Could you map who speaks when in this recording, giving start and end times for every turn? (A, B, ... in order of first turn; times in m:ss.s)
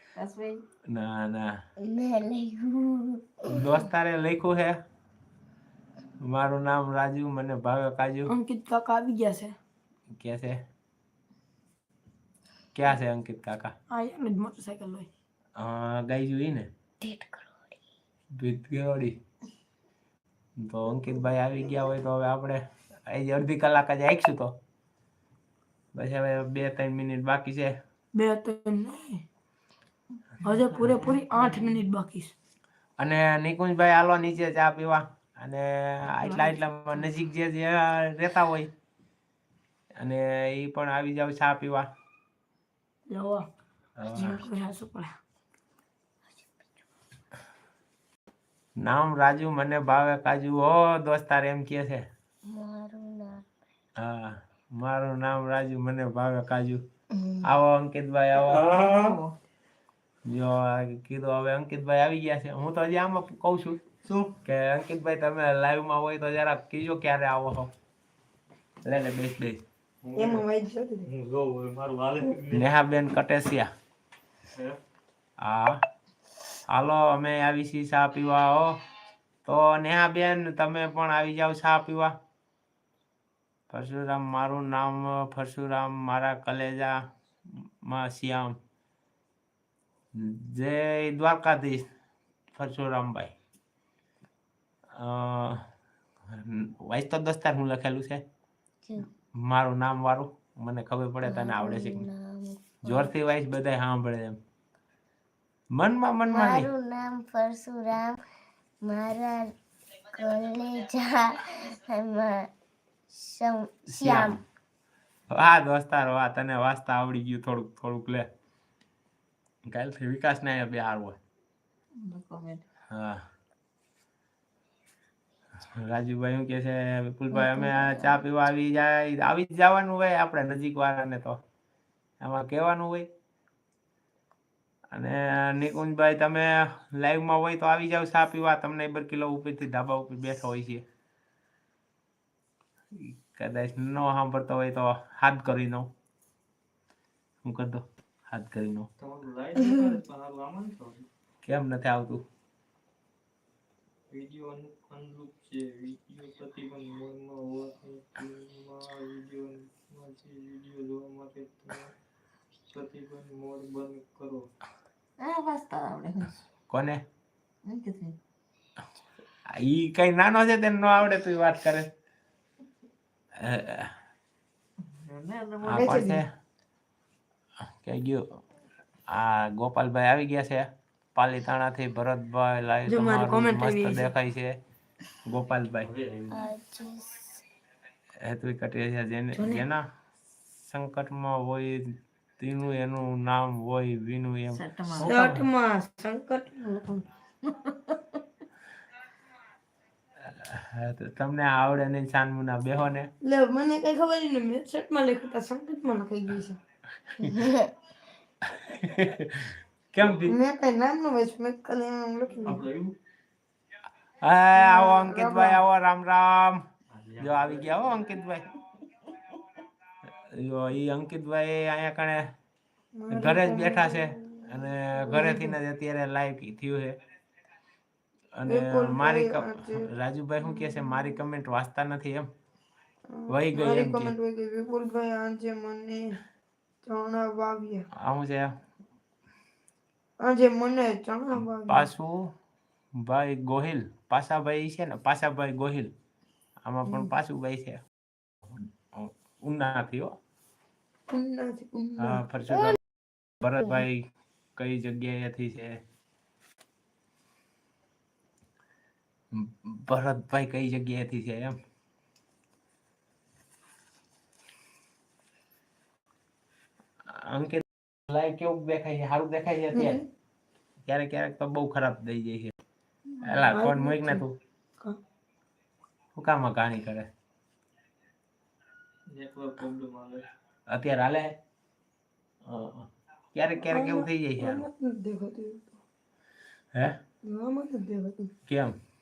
0:00.2-0:00.6 A
0:00.9-0:01.6 B
0:01.8-0:03.6 C
0:03.5-0:04.8 B
0:06.2-0:08.3 B
0:08.3-0:09.6 D
0:10.2-0:10.6 B
0:12.8-0:13.8 B
0:13.9-0:15.1 D
0:15.6-0:16.7 B
0:17.0-0:17.8 C
0:18.4-0:19.2 B
0:20.6-0:24.6 B
0:25.9-0:27.7 B
0:28.1-0:29.2 D
0:30.4-0:32.3 D
0:30.8-0:31.8 A
0:33.0-0:38.7 B
0:40.0-0:41.9 B
0:43.1-0:43.5 D
0:44.0-0:44.4 B
0:44.2-0:45.2 D
0:48.8-0:52.1 B
0:52.5-0:53.4 C
0:54.0-0:56.8 B
0:57.4-0:58.8 B
0:58.6-0:59.4 A
0:58.7-0:59.2 E
1:00.3-1:03.8 B
1:04.0-1:04.4 E
1:04.4-1:07.7 B
1:08.8-1:09.6 B
1:10.0-1:10.5 E
1:10.2-1:11.1 D
1:11.0-1:12.7 E
1:12.5-1:13.7 B
1:15.4-1:15.8 B
1:16.7-1:18.8 B
1:19.4-1:22.2 B
1:23.7-1:27.0 B
1:27.8-1:28.6 B
1:30.2-1:31.9 B
1:32.5-1:33.3 B
1:35.0-1:35.7 B
1:36.3-1:38.2 B
1:39.4-1:42.1 B
1:41.3-1:43.1 C
1:42.8-1:44.4 B
1:45.7-1:46.7 B
1:46.3-1:48.2 C
1:48.8-1:49.5 C
1:50.1-1:52.5 C
1:53.1-1:54.4 C
1:53.9-1:54.4 B
1:55.3-1:58.3 B
1:59.7-2:01.2 B
2:02.0-2:02.6 A
2:02.9-2:03.2 B
2:05.6-2:11.4 B
2:07.5-2:07.8 C
2:12.2-2:13.1 B
2:14.9-2:20.8 B
2:23.0-2:25.9 B
2:27.4-2:28.9 B
2:29.0-2:31.1 E
2:31.4-2:32.2 B
2:34.1-2:41.9 E
2:42.7-2:44.5 E
2:45.2-2:46.4 A
2:46.7-2:47.0 B
2:47.6-2:48.2 A
2:49.5-2:51.9 B
2:53.4-2:54.0 B
2:54.9-2:56.1 A
2:55.6-2:56.3 B
2:55.8-2:56.2 D
2:57.8-2:58.3 B
2:59.1-3:04.6 B
3:02.9-3:04.1 D
3:05.2-3:05.9 B
3:05.8-3:06.5 E
3:06.3-3:07.4 C
3:08.2-3:09.8 B
3:09.4-3:09.7 D
3:10.7-3:15.4 B
3:14.5-3:15.2 A
3:15.1-3:17.1 D
3:17.4-3:18.0 A
3:20.3-3:23.1 B
3:23.2-3:26.6 D
3:27.2-3:27.5 B
3:27.2-3:27.7 C
3:28.4-3:30.4 B
3:30.0-3:30.3 E
3:30.3-3:32.6 D
3:32.4-3:32.9 E
3:34.2-3:36.6 B
3:34.6-3:35.6 D
3:36.9-3:38.1 E
3:37.2-3:38.5 B
3:40.2-3:42.3 B
3:43.0-3:44.5 D
3:43.1-3:47.0 B
3:45.0-3:45.6 D
3:48.4-3:52.3 B
3:48.5-3:49.9 D
3:53.1-3:56.2 D
3:53.3-3:54.2 B
3:56.8-3:57.9 D
3:57.9-3:58.6 B
4:00.2-4:01.9 D
4:01.4-4:02.3 B
4:03.0-4:05.9 B
4:06.6-4:07.8 B
4:08.5-4:10.2 B
4:11.1-4:12.2 D
4:12.0-4:12.8 B
4:13.4-4:15.8 B
4:19.3-4:21.6 B
4:27.1-4:30.0 B
4:29.7-4:30.0 D
4:30.8-4:32.5 B
4:33.1-4:33.6 A
4:33.2-4:34.3 B
4:33.5-4:34.2 D
4:36.2-4:37.1 B
4:39.1-4:40.3 E
4:40.7-4:41.3 B
4:42.4-4:44.7 B
4:43.7-4:45.8 D
4:47.2-4:48.3 D
4:48.5-4:48.8 B